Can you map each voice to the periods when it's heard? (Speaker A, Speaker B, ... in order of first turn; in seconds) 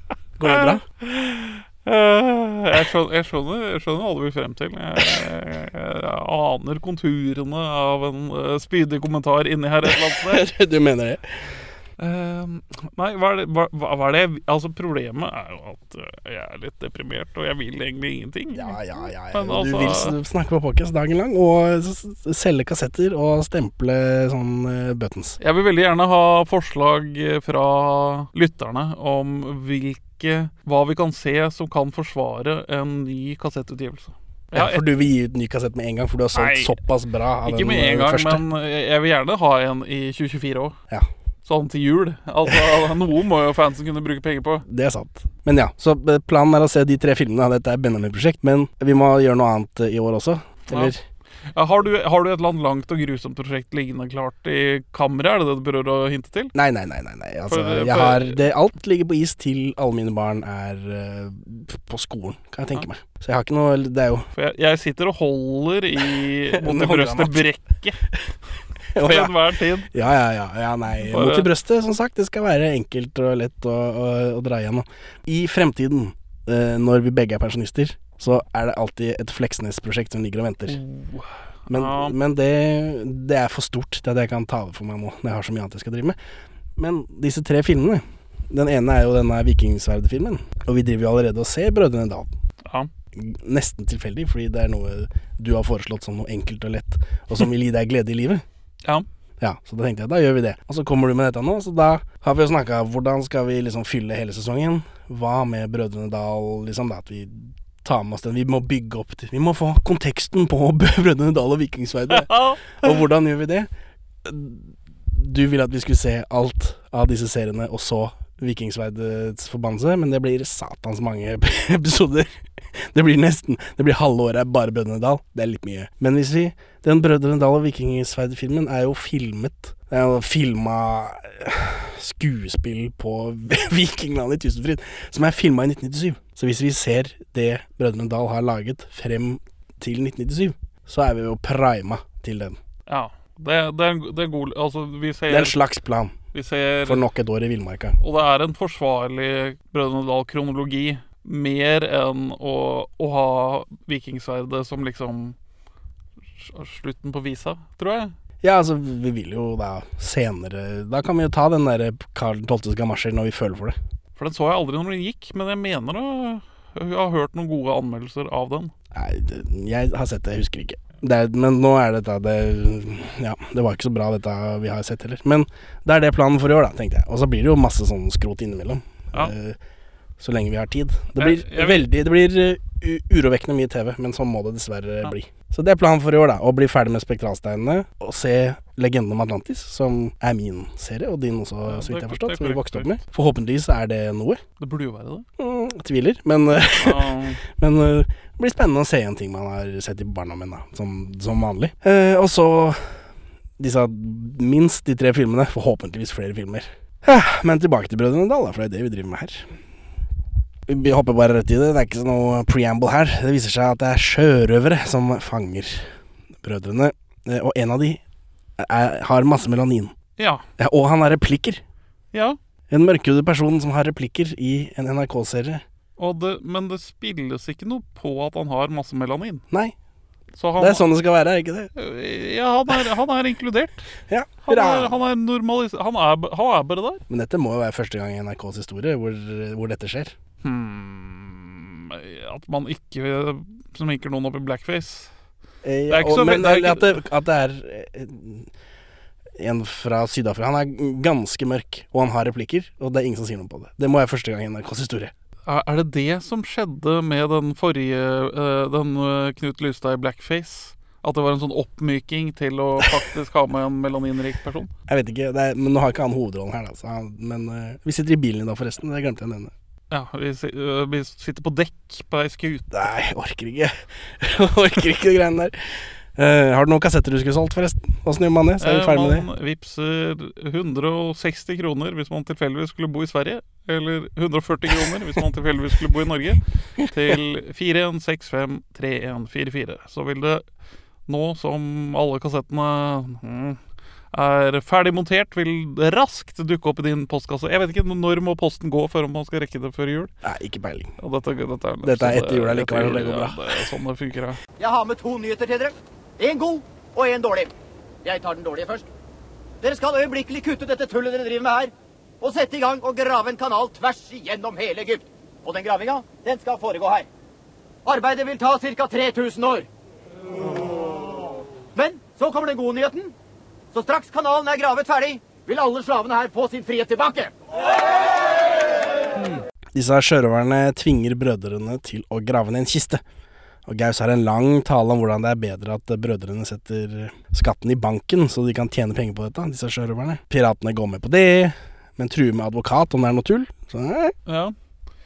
Speaker A: 0.4-0.8, 9.9-11.2, 18.5-25.4, 34.5-38.4, 44.7-51.0, 56.5-64.3, 66.5-67.4, 68.9-69.4, 69.9-80.8, 81.7-86.2, 86.8-92.3, 93.2-98.4, 99.4-113.7, 114.2-142.6, 145.3-146.1, 146.9-148.0, 158.4-163.8, 168.9-179.6, 180.2-194.4, 195.4-202.8, 203.6-209.4, 210.7-215.9, 216.4-218.0, 218.6-219.9, 220.6-221.6, 222.7-225.6, 230.6-231.7, 234.1-235.0, 237.1-240.1, 245.6-248.5, 249.4-255.1, 264.9-269.5, 272.7-279.3, 300.2-300.9, 301.8-303.4, 329.8-333.0, 333.7-344.1
Speaker B: 0.5-10.4, 12.0-18.8, 19.3-20.2, 25.4-34.9, 36.3-36.8, 37.5-40.8, 41.5-44.7, 51.5-56.5, 57.5-58.4, 64.3-68.0, 69.0-69.9, 71.0-71.5, 80.7-82.2, 92.7-92.9, 112.1-113.0, 142.9-145.6, 146.3-147.0, 148.0-155.4, 156.4-158.1, 164.2-168.7, 181.2-181.9, 191.7-192.9, 194.6-195.3, 196.7-197.4, 220.2-220.4, 226.0-229.4, 230.4-230.8, 231.8-233.9, 234.5-237.0, 240.4-245.1, 245.9-247.0, 255.5-264.7, 269.9-272.7, 278.6-290.4, 291.1-293.6, 294.1-300.1, 301.0-304.4, 344.3-344.6
Speaker C: 304.6-307.5, 308.0-308.9, 309.6-317.1, 317.9-319.7, 321.8-323.1, 323.7-327.3